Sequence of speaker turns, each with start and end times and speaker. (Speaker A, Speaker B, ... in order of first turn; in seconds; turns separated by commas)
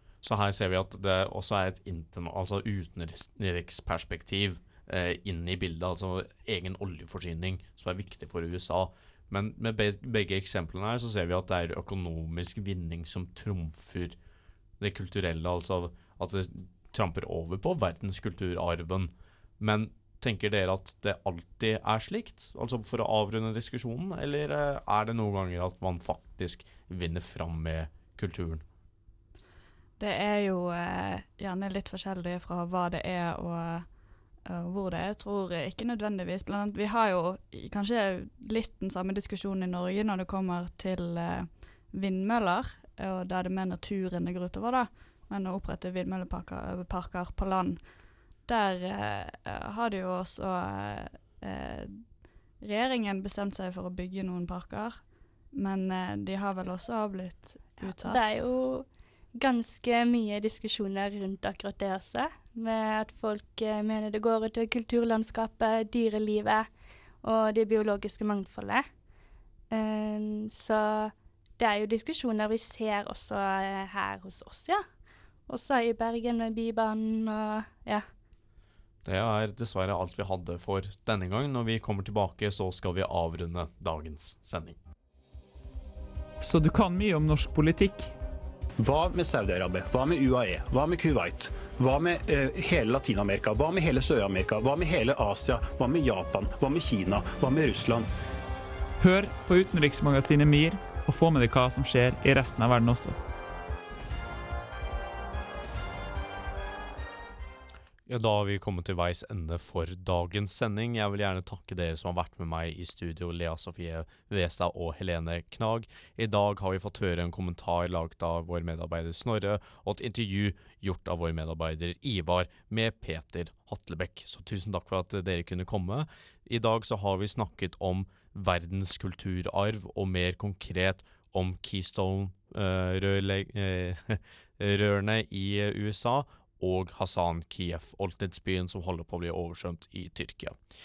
Speaker A: 0.2-14.2, Speaker A: 14.8-28.6, Speaker B: 30.0-33.9, Speaker B: 34.5-47.8, Speaker B: 48.5-52.0, Speaker B: 52.6-58.4, Speaker C: 57.8-58.9, Speaker C: 59.4-66.7, Speaker C: 67.2-68.8, Speaker C: 69.7-74.8, Speaker C: 75.5-78.0, Speaker A: 79.0-84.8, Speaker D: 86.4-88.1, Speaker E: 88.8-98.1, Speaker D: 99.0-103.2, Speaker A: 108.1-140.6